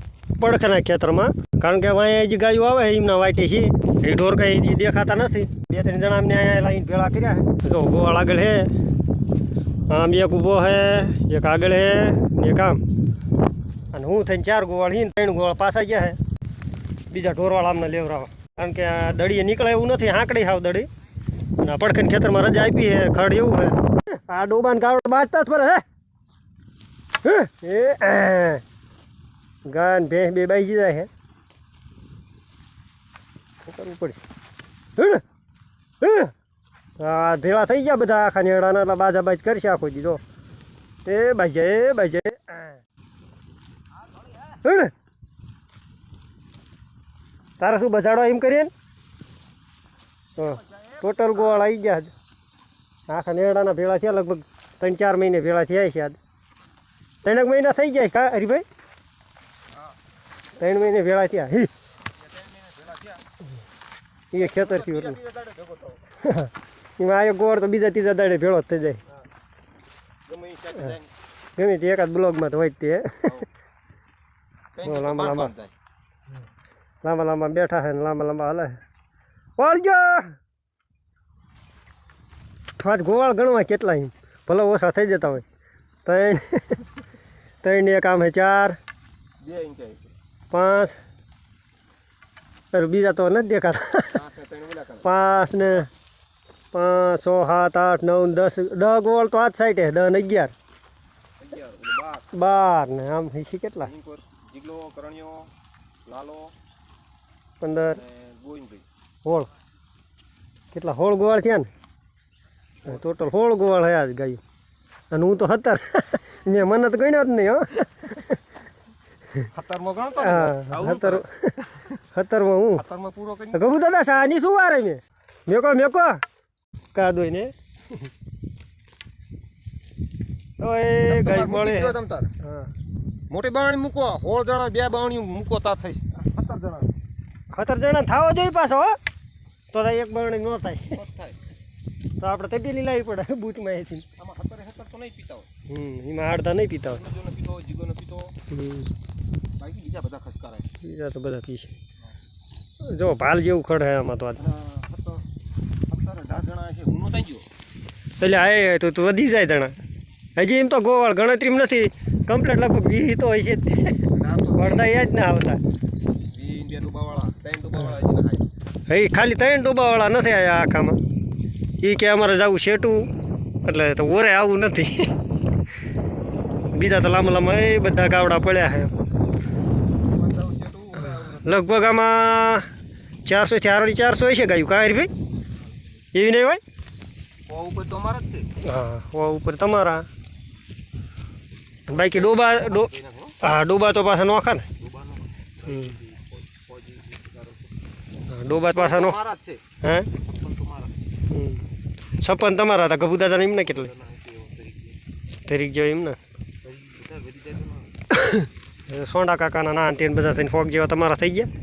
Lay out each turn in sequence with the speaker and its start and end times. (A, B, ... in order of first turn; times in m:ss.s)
0:00.4-0:08.7 A
0:09.9-0:12.8 A
0:13.9-0:16.2 A
0:17.1-0:20.9 A
0:21.6-0:25.8 A
0:27.2-0:28.6 A
0:29.7-0:31.1 A
0:33.6-0:34.2 A
0:35.0-0:35.2 A
0:36.0-0:36.3 A
0:37.0-0:40.2 A
0:41.1-0:42.8 A
0:44.4-0:44.9 A
0:47.6-0:48.7 A
0:50.4-0:52.1 A
0:53.1-0:56.2 A
0:57.2-0:58.6 A
1:00.6-1:01.7 A
1:02.1-1:03.2 B
1:04.3-1:05.2 A
1:04.4-1:06.0 B
1:06.2-1:09.0 A
1:10.3-1:11.1 B
1:11.6-1:13.4 A
1:14.8-1:15.7 B
1:14.8-1:15.5 A
1:17.0-1:18.8 A
1:19.6-1:20.4 A
1:22.8-1:25.4 A
1:26.0-1:26.8 A
1:27.6-1:28.8 A
1:29.4-1:30.1 B
1:30.5-1:31.0 A
1:32.7-1:34.2 A
1:34.1-1:35.1 B
1:35.0-1:35.9 A
1:36.7-1:40.5 A
1:41.4-1:42.3 B
1:42.3-1:43.9 A
1:43.8-1:45.5 B
1:46.1-1:46.5 B
1:47.6-1:48.0 A
1:47.9-1:48.9 B
1:50.7-1:51.7 A
1:52.9-1:54.4 A
1:55.1-1:58.4 A
1:59.5-2:01.9 B
2:00.2-2:01.4 A
2:02.1-2:02.8 A
2:02.8-2:03.6 B
2:03.5-2:06.2 A
2:06.9-2:07.5 A
2:10.6-2:12.7 A
2:11.1-2:12.3 B
2:13.3-2:16.9 B
2:17.5-2:19.0 A
2:19.7-2:21.0 A
2:20.9-2:21.4 B
2:22.2-2:24.1 A
2:24.2-2:25.5 B
2:25.7-2:27.0 A
2:26.9-2:28.4 B
2:28.5-2:28.9 A
2:29.6-2:30.7 B
2:30.8-2:31.8 A
2:32.8-2:34.4 A
2:34.4-2:35.2 B
2:35.9-2:37.5 B
2:38.2-2:39.8 A
2:40.4-2:44.0 A
2:44.1-2:44.9 B
2:44.5-2:45.6 A
2:46.3-2:48.4 B
2:48.9-2:51.0 A
2:51.8-2:53.1 A
2:53.6-2:55.1 A
2:56.7-2:58.9 A
3:00.1-3:01.5 B
3:01.2-3:02.7 A
3:03.3-3:05.1 A
3:06.1-3:06.6 A
3:07.5-3:08.5 B
3:08.6-3:10.1 A
3:11.9-3:12.9 A
3:11.9-3:13.4 B
3:13.4-3:14.7 A
3:14.8-3:17.7 B
3:15.7-3:16.0 A
3:18.3-3:19.2 A
3:18.7-3:21.0 B
3:19.8-3:20.1 A
3:21.3-3:21.6 A
3:22.2-3:23.9 A
3:23.6-3:25.0 B
3:25.5-3:26.2 A
3:26.6-3:27.9 B
3:28.1-3:31.5 A